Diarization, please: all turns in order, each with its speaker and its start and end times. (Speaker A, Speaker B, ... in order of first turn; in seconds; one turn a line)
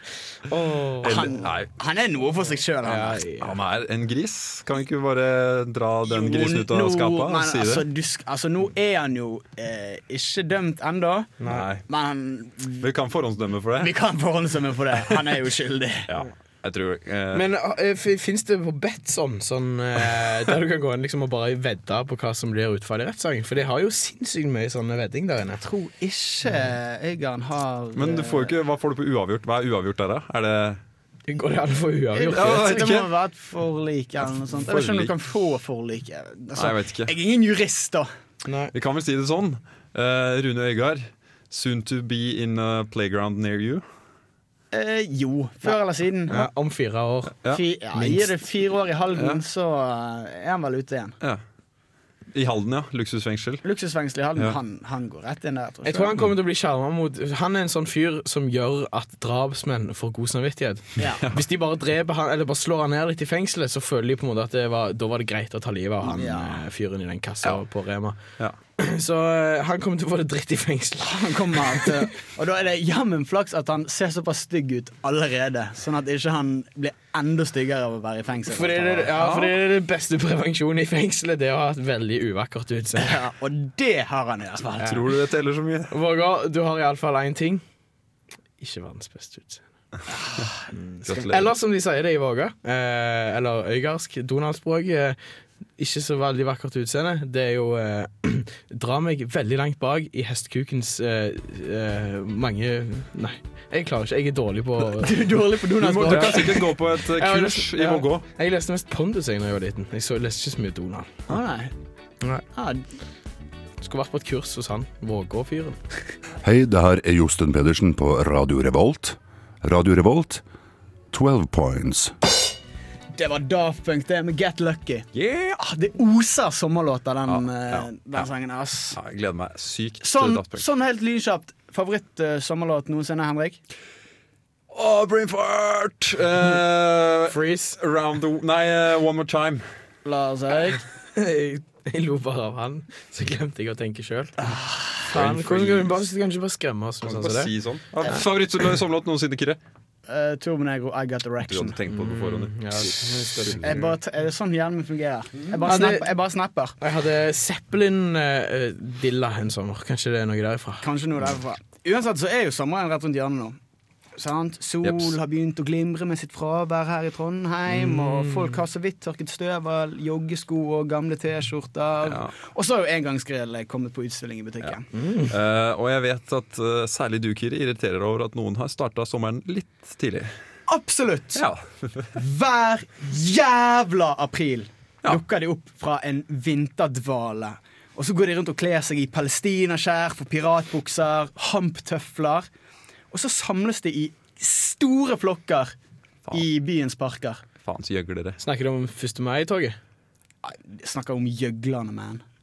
Speaker A: 0.5-1.3
Speaker B: 1.0-1.7
Speaker C: 1.0-3.2
Speaker A: 2.8-3.6
Speaker B: 3.4-7.9
Speaker C: 6.0-11.3
Speaker A: 11.4-11.7
Speaker B: 11.5-11.8
Speaker C: 11.9-12.9
Speaker B: 12.8-13.9
Speaker C: 13.8-16.1
Speaker B: 16.1-17.4
Speaker A: 17.3-25.6
Speaker C: 25.6-28.5
Speaker B: 27.9-30.8
Speaker A: 31.3-32.8
Speaker C: 32.1-38.1
Speaker B: 32.2-33.1
Speaker B: 34.6-35.1
Speaker B: 36.5-37.1
Speaker A: 38.4-38.7
Speaker B: 38.7-43.8
Speaker C: 44.7-46.5
Speaker A: 46.3-48.3
Speaker C: 47.5-51.2
Speaker B: 49.1-49.4
Speaker B: 52.3-53.6
Speaker C: 53.6-56.2
Speaker A: 55.8-68.2
Speaker C: 61.0-61.2
Speaker B: 61.0-61.4
Speaker C: 66.0-66.6
Speaker A: 68.8-72.0
Speaker C: 71.0-79.1
Speaker A: 78.5-83.2
Speaker B: 79.1-79.6
Speaker C: 83.0-85.0
Speaker B: 84.8-85.9
Speaker A: 85.9-87.6
Speaker A: 88.6-89.6
Speaker C: 90.1-90.6
Speaker A: 90.9-95.2
Speaker B: 91.0-91.5
Speaker A: 95.8-105.1
Speaker C: 105.0-106.6
Speaker B: 105.8-108.2
Speaker A: 106.0-111.3
Speaker C: 111.3-111.7
Speaker C: 112.5-112.8
Speaker A: 113.8-115.8
Speaker D: 116.4-120.4
Speaker D: 121.1-122.1
Speaker C: 123.1-125.1
Speaker B: 125.1-125.6
Speaker C: 125.6-129.0
Speaker B: 127.3-128.3
Speaker B: 128.9-130.7
Speaker C: 130.0-133.6
Speaker B: 134.7-139.7
Speaker A: 137.3-137.8
Speaker C: 140.0-140.8
Speaker A: 141.1-144.3
Speaker C: 144.4-145.1
Speaker B: 145.1-146.0
Speaker A: 145.1-147.5
Speaker B: 147.0-149.6
Speaker C: 150.1-151.8
Speaker B: 151.4-153.9
Speaker A: 151.9-153.9
Speaker C: 153.6-156.7
Speaker A: 155.7-156.1
Speaker A: 156.8-160.8
Speaker C: 160.8-163.6
Speaker C: 164.2-174.9
Speaker B: 164.8-165.1
Speaker A: 167.7-168.6
Speaker B: 172.0-172.3
Speaker B: 174.6-180.3
Speaker A: 174.9-175.3
Speaker C: 180.7-181.4
Speaker B: 181.3-182.2
Speaker C: 182.1-192.5
Speaker C: 193.1-195.7
Speaker C: 196.3-197.4
Speaker B: 197.6-198.4
Speaker A: 198.4-199.8
Speaker C: 200.4-202.2